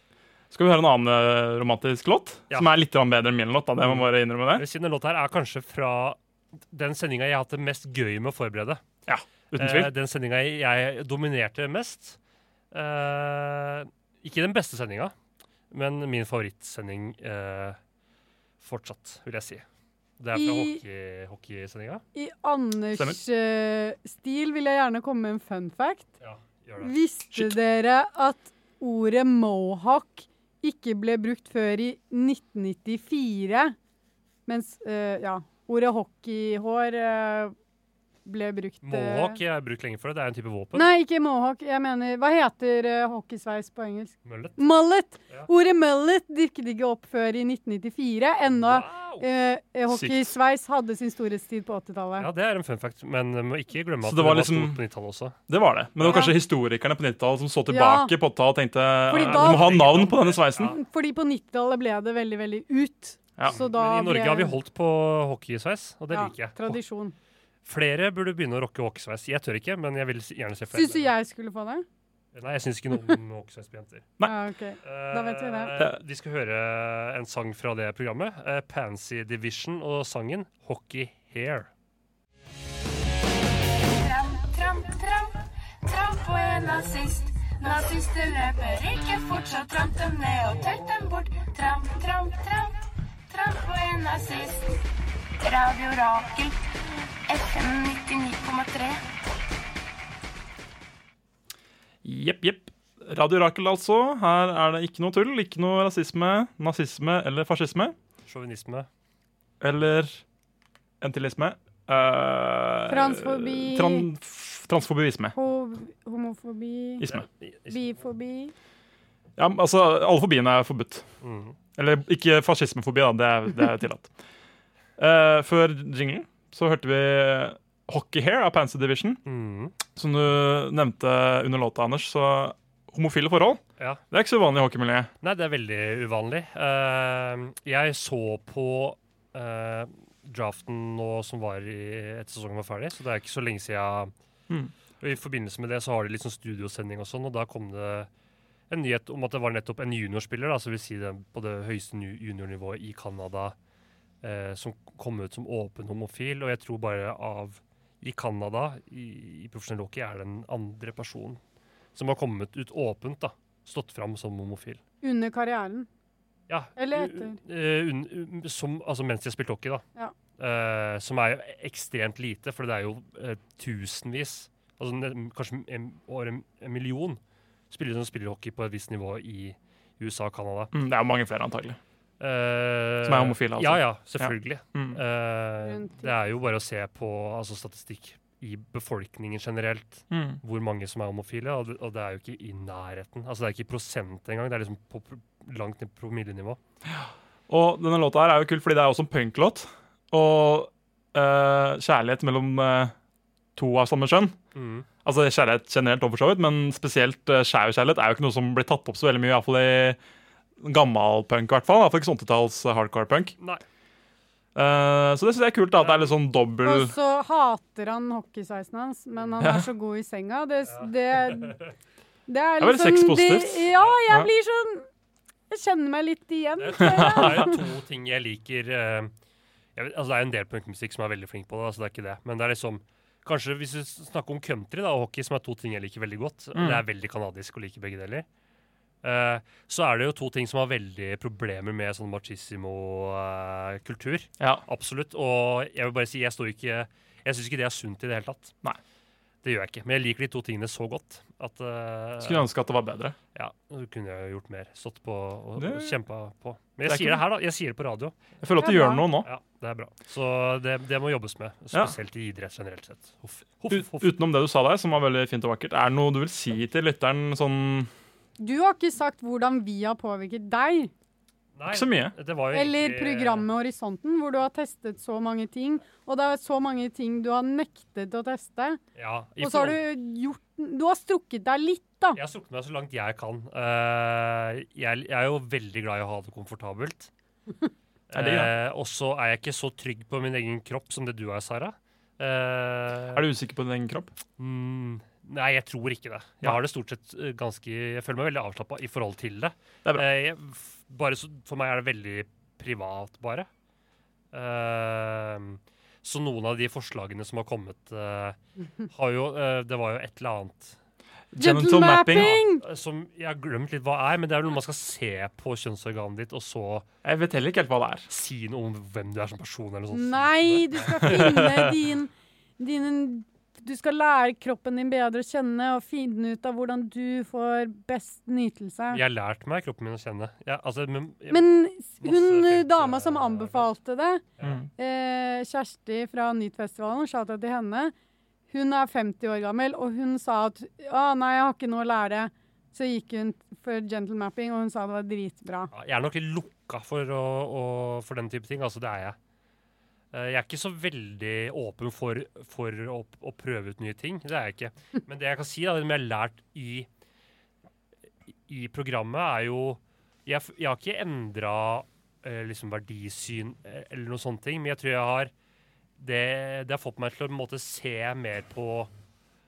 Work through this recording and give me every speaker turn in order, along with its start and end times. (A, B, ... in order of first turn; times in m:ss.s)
0:00.5-0:04.6 A
0:03.8-0:06.2 B
0:06.7-0:08.8 B
0:09.0-0:09.9 A
0:09.5-0:12.2 B
0:12.7-0:15.1 B
0:15.7-0:17.8 B
0:18.6-0:19.6 B
0:20.2-0:22.0 B
0:20.3-0:20.8 C
0:22.1-0:26.1 C
0:26.2-0:26.9 B
0:26.8-0:33.7 C
0:34.5-0:37.5 C
0:38.2-0:39.4 C
0:38.8-0:40.9 B
0:40.7-0:52.3 C
0:44.2-0:44.6 B
0:48.5-0:49.3 B
0:49.9-0:50.3 A
0:52.2-0:55.4 B
0:54.0-0:54.8 A
0:55.5-1:00.7 A
0:56.0-0:56.4 C
0:57.7-0:58.1 C
0:59.1-0:59.9 C
0:59.1-1:00.8 B
1:00.6-1:04.6 C
1:03.4-1:06.6 B
1:06.1-1:07.1 C
1:07.6-1:11.1 B
1:10.7-1:11.8 C
1:12.3-1:14.1 B
1:14.2-1:15.7 C
1:14.8-1:21.7 B
1:23.8-1:34.8 D
1:35.4-1:36.5 D
1:37.3-1:39.0 D
1:42.0-1:48.0 A
1:48.2-1:48.9 B
1:49.6-1:50.2 A
1:51.0-1:55.3 A
1:52.9-1:54.1 C
1:55.3-1:57.0 C
1:57.0-1:57.2 A
1:57.1-1:58.0 B
1:57.7-1:58.5 C
1:59.4-2:01.0 A
2:01.2-2:01.6 B
2:01.8-2:04.1 A
2:05.0-2:09.2 A
2:09.2-2:09.8 B
2:10.0-2:15.1 A
2:15.2-2:24.1 B
2:25.0-2:28.1 B
2:28.7-2:33.5 B
2:34.2-2:41.4 B
2:41.9-2:44.8 B
2:45.0-2:45.9 C
2:46.5-2:49.8 B
2:46.8-2:47.4 C
2:50.4-2:57.2 B
2:57.7-3:00.7 B
3:00.7-3:01.8 A
3:02.2-3:16.6 B
3:03.0-3:05.0 A
3:05.6-3:06.1 C
3:10.1-3:10.4 A
3:16.9-3:22.9 A
3:23.6-3:24.4 A
3:24.5-3:24.9 B
3:25.0-3:30.0 A
3:30.6-3:33.3 A
3:34.5-3:36.9 A
3:35.8-3:36.1 B
3:36.6-3:41.6 C
3:39.4-3:39.6 A
3:40.7-3:41.7 B
3:42.3-3:44.9 C
3:42.6-3:44.3 A
3:45.5-3:47.6 C
3:46.6-3:49.1 B
3:46.8-3:47.5 A
3:49.8-3:58.2 B
3:56.5-3:56.8 A
3:59.0-4:08.5 B
4:09.4-4:12.5 B
4:12.2-4:13.2 A
4:13.3-4:18.1 B
4:15.6-4:16.0 A
4:16.8-4:17.2 A
4:18.4-4:19.3 A
4:18.6-4:19.0 C
4:19.2-4:24.1 B
4:23.7-4:27.9 A
4:28.4-4:30.9 C
4:31.5-4:33.5 B
4:31.7-4:32.1 A
4:32.5-4:38.8 C
4:38.9-4:39.8 B
4:39.4-4:42.2 C
4:42.1-4:47.1 B
4:48.1-4:53.2 B
4:48.1-4:48.5 A
4:53.1-4:54.1 A
4:54.4-5:03.5 B
5:04.3-5:10.8 B
5:11.3-5:12.4 A
5:11.4-5:12.6 C
5:12.1-5:16.8 B
5:17.0-5:18.0 A
5:18.1-5:21.6 B
5:19.9-5:29.0 C
5:21.0-5:21.7 A
5:28.9-5:33.7 B
5:31.3-5:34.2 C
5:34.4-5:34.6 B
5:34.4-5:34.7 A
5:34.8-5:37.9 C
5:38.5-5:45.7 C
5:45.7-5:49.2 B
5:50.1-5:56.9 B
5:58.5-6:05.3 B
6:06.0-6:08.9 B